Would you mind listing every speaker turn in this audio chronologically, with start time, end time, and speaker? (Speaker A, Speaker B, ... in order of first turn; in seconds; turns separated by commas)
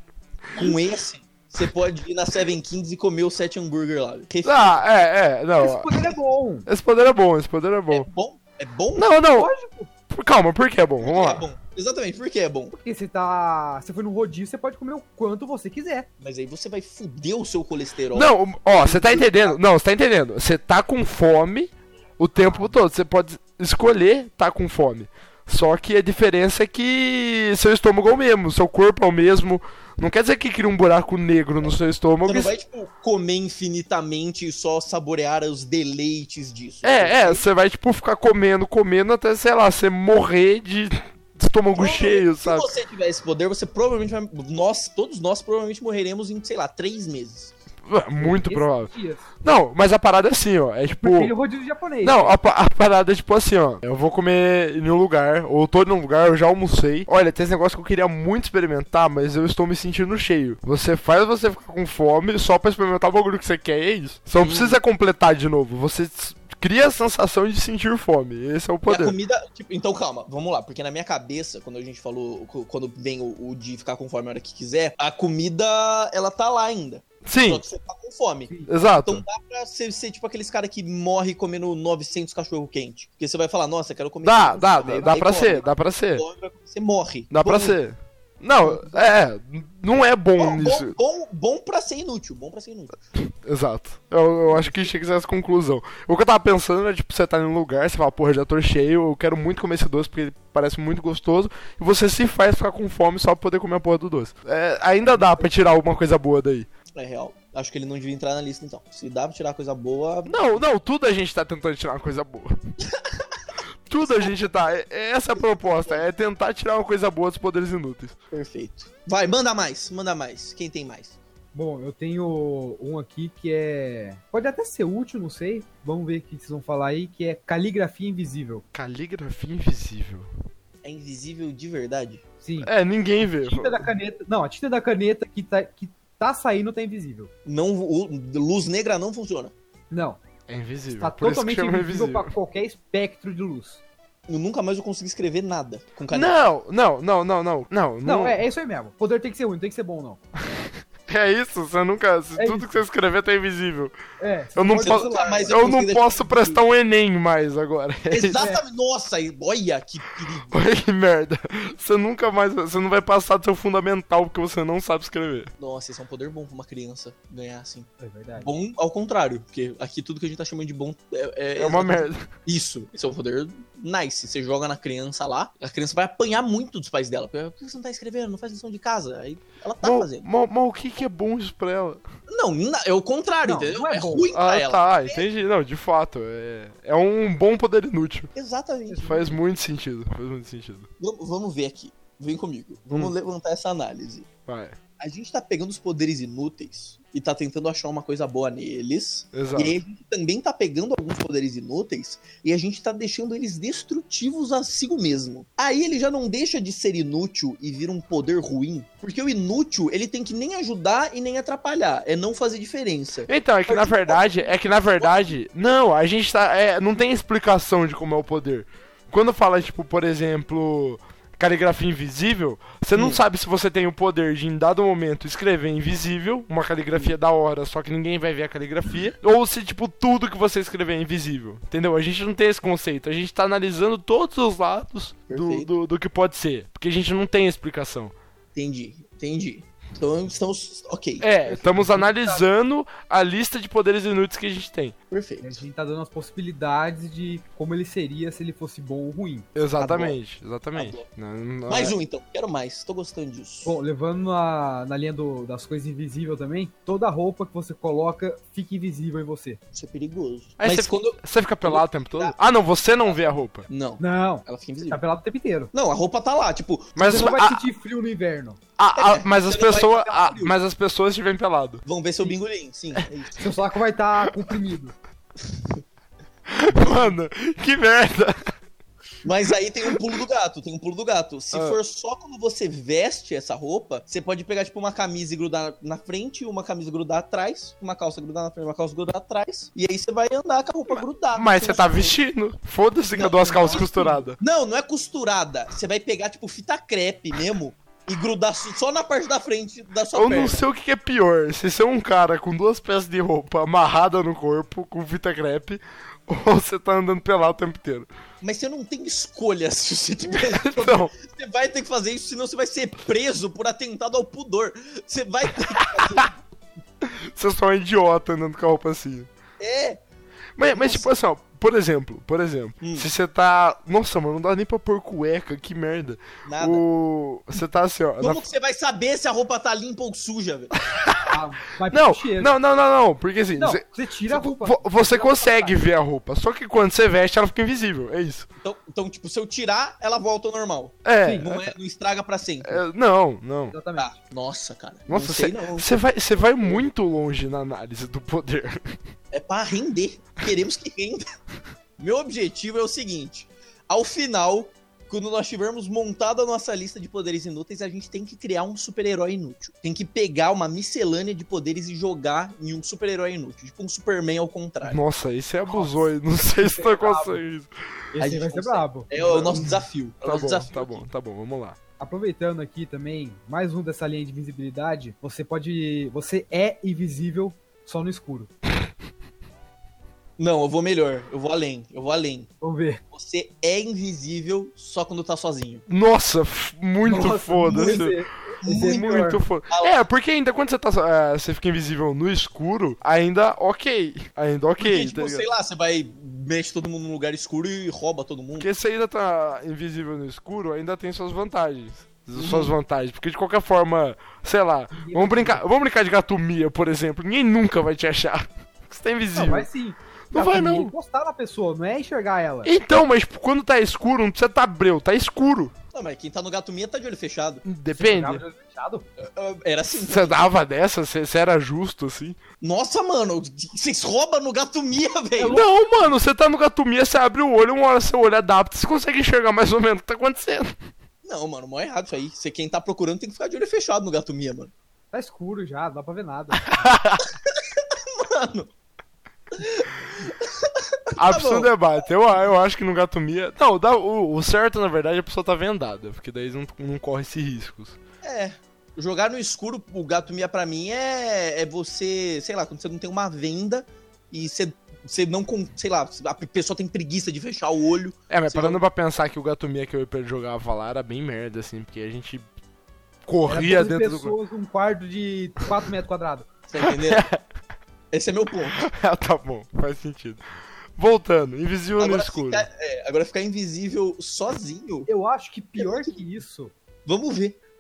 Speaker A: 0.6-4.8, Speaker B: 4.5-6.1, Speaker C: 5.6-6.7, Speaker B: 6.7-8.1, Speaker A: 7.9-9.1, Speaker B: 9.0-9.5, Speaker C: 9.4-9.9, Speaker B: 10.1-11.5, Speaker A: 11.0-12.7, Speaker C: 12.7-16.1, Speaker A: 16.2-19.6, Speaker B: 18.1-32.5, Speaker C: 22.4-22.7, Speaker A: 32.2-37.5, Speaker B: 36.8-42.7, Speaker A: 41.8-47.5, Speaker B: 47.9-51.3, Speaker C: 48.2-49.3, Speaker C: 51.0-52.4, Speaker B: 52.0-69.2, Speaker A: 64.4-64.8, Speaker A: 68.9-87.8, Speaker B: 77.2-77.6, Speaker B: 78.7-79.2, Speaker B: 84.2-86.2, Speaker C: 84.9-85.2, Speaker B: 87.3-91.0, Speaker A: 90.4-93.0, Speaker B: 93.4-106.7, Speaker A: 94.5-94.9, Speaker A: 105.1-105.5, Speaker A: 106.9-110.4, Speaker B: 110.3-112.5, Speaker A: 112.9-113.3, Speaker B: 113.9-118.1, Speaker A: 114.0-114.4, Speaker A: 115.3-116.1, Speaker A: 118.3-121.2, Speaker C: 121.5-128.7, Speaker B: 128.7-130.3, Speaker A: 130.8-132.2, Speaker C: 132.4-132.7, Speaker B: 132.6-133.8, Speaker C: 133.4-137.3, Speaker A: 137.4-139.5, Speaker C: 139.9-140.2, Speaker B: 140.5-142.3, Speaker C: 141.0-143.8, Speaker A: 144.3-146.4, Speaker B: 146.1-148.4, Speaker C: 148.1-150.2, Speaker B: 151.1-153.9, Speaker C: 152.4-152.7, Speaker C: 154.2-155.7, Speaker B: 154.6-158.4, Speaker A: 154.7-156.6, Speaker A: 158.1-160.6, Speaker B: 160.5-165.5, Speaker A: 165.6-180.2, Speaker C: 168.0-168.5, Speaker B: 171.6-172.2, Speaker B: 179.8-182.0, Speaker A: 182.3-185.3, Speaker C: 183.4-184.3, Speaker B: 184.3-188.3, Speaker A: 188.3-189.1, Speaker C: 188.9-189.3, Speaker B: 189.0-190.9, Speaker A: 191.0-194.3, Speaker B: 194.5-194.8, Speaker A: 195.0-215.4, Speaker B: 199.3-199.8, Speaker B: 213.3-238.1, Speaker A: 222.9-223.2, Speaker A: 235.3-235.7, Speaker A: 238.6-241.3, Speaker B: 241.2-244.9, Speaker C: 241.5-242.4, Speaker A: 245.1-245.6, Speaker C: 245.4-249.5, Speaker B: 249.6-251.9, Speaker A: 249.8-250.2, Speaker A: 250.8-251.1, Speaker A: 251.7-253.8, Speaker C: 253.7-259.6, Speaker A: 259.7-262.4, Speaker B: 260.6-263.7, Speaker A: 263.0-265.0, Speaker C: 264.0-265.7, Speaker A: 265.7-267.4, Speaker B: 267.0-267.6, Speaker C: 267.0-268.6, Speaker B: 268.8-271.8, Speaker A: 269.0-270.6, Speaker A: 271.9-273.6, Speaker C: 273.4-274.9, Speaker A: 275.4-275.8, Speaker B: 276.5-278.4, Speaker A: 276.7-277.1, Speaker A: 279.2-292.2, Speaker B: 291.4-294.4, Speaker A: 293.1-300.7, Speaker B: 300.1-308.1, Speaker A: 308.4-316.4, Speaker B: 310.4-311.1, Speaker B: 315.8-316.3, Speaker B: 317.0-319.3, Speaker A: 319.6-320.0, Speaker B: 320.6-328.4, Speaker A: 320.7-321.1, Speaker A: 322.8-323.1, Speaker A: 326.4-326.8, Speaker A: 328.2-330.7, Speaker B: 330.9-331.4, Speaker C: 331.3-332.5, Speaker B: 331.9-338.5, Speaker C: 333.6-335.8, Speaker A: 338.6-342.8, Speaker B: 341.1-341.7, Speaker C: 341.2-341.5, Speaker B: 342.6-343.8, Speaker C: 343.7-344.1, Speaker A: 344.0-345.9, Speaker B: 345.1-349.0, Speaker A: 349.3-351.3, Speaker A: 352.0-365.0, Speaker B: 364.8-367.7, Speaker C: 365.7-367.4, Speaker C: 368.1-369.8, Speaker A: 368.2-371.1, Speaker B: 370.2-371.8, Speaker C: 372.0-378.5, Speaker A: 380.4-382.5, Speaker C: 382.6-383.0, Speaker A: 383.1-385.8, Speaker B: 385.9-388.2, Speaker C: 387.0-389.4, Speaker A: 387.1-388.1, Speaker A: 388.6-390.0, Speaker B: 388.8-395.4, Speaker A: 394.8-398.7, Speaker B: 398.6-409.7, Speaker A: 402.4-402.7, Speaker C: 404.9-405.6, Speaker C: 409.3-412.7, Speaker B: 410.3-410.9, Speaker B: 412.6-415.7, Speaker A: 415.9-417.6, Speaker B: 417.6-418.4, Speaker C: 417.9-419.1, Speaker A: 419.2-420.4, Speaker B: 419.9-422.4, Speaker A: 422.6-425.6, Speaker C: 425.4-425.6, Speaker B: 425.5-430.8, Speaker A: 431.2-434.7, Speaker C: 435.1-436.9, Speaker B: 436.7-437.2, Speaker A: 437.2-438.7, Speaker A: 439.5-442.1, Speaker B: 441.2-448.0, Speaker A: 448.2-458.8, Speaker B: 458.3-462.5, Speaker B: 463.3-464.4, Speaker C: 463.5-466.5, Speaker A: 466.7-467.2, Speaker B: 466.8-467.4, Speaker A: 468.1-468.9, Speaker B: 468.8-470.4, Speaker B: 471.0-472.7, Speaker A: 472.0-475.1, Speaker C: 475.1-476.7, Speaker A: 475.8-476.2, Speaker A: 477.1-477.6